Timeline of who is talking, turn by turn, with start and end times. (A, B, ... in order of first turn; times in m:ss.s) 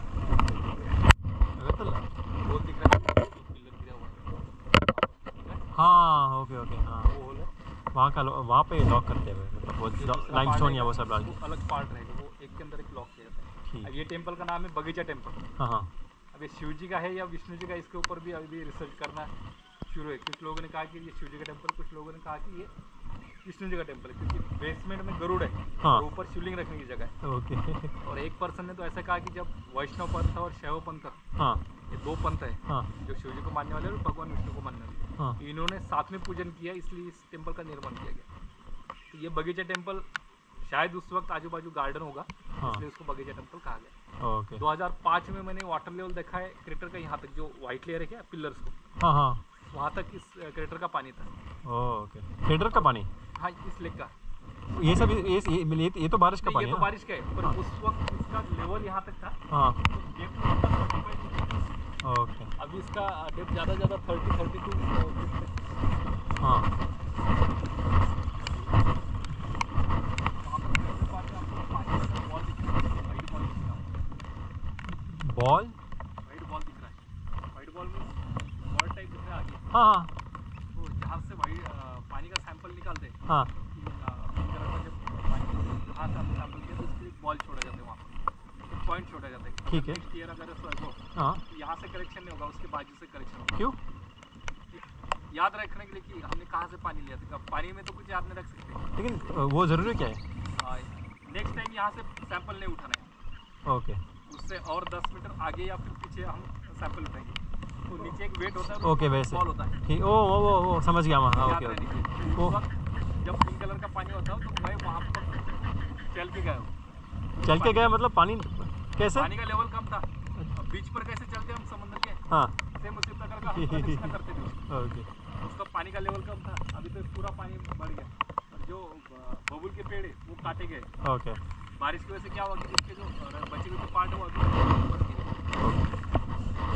0:01.6-0:02.1 A
0:02.4-0:05.7 B
0:05.7-0:07.1 A
0:07.0-0:07.5 B
0:07.9-0:11.4 A
0:10.0-0:15.4 B
0:15.6-0:15.9 A
0:16.3-0:19.3 B
0:19.9-0:22.7 B
0:23.4-0:27.1 B
0:27.2-0:27.9 A
0:28.0-0:31.2 B
0:31.4-0:31.6 A
0:31.9-0:38.2 B
0:39.1-0:40.0 B
0:40.6-0:43.9 B
0:44.2-0:44.6 A
0:44.6-0:48.8 B
0:49.0-0:49.4 A
0:49.7-0:51.3 B
0:51.6-0:53.1 A
0:52.7-0:54.1 B
0:54.7-0:57.6 A
0:54.8-0:55.1 B
0:56.4-1:01.6 B
0:59.5-0:59.8 A
1:02.0-1:02.5 A
1:02.6-1:05.6 B
1:06.4-1:06.7 A
1:10.4-1:13.9 B
1:14.9-1:15.8 A
1:16.2-1:17.0 B
1:17.5-1:19.8 B
1:19.7-1:20.1 A
1:20.7-1:23.2 B
1:23.7-1:28.1 B
1:28.7-1:33.6 B
1:29.7-1:30.0 A
1:31.1-1:31.4 A
1:34.7-1:38.8 B
1:39.0-1:40.2 A
1:40.6-1:43.1 B
1:43.6-1:44.0 A
1:44.3-1:49.8 B
1:48.8-1:52.6 A
1:51.4-1:55.5 B
1:56.1-1:56.7 B
1:57.4-1:58.0 B
1:57.4-1:59.3 A
1:59.1-2:02.2 B
2:02.3-2:02.6 A
2:02.7-2:04.6 B
2:03.4-2:04.1 A
2:04.7-2:05.1 A
2:05.4-2:10.9 B
2:11.0-2:11.4 A
2:11.8-2:15.4 B
2:15.6-2:16.0 A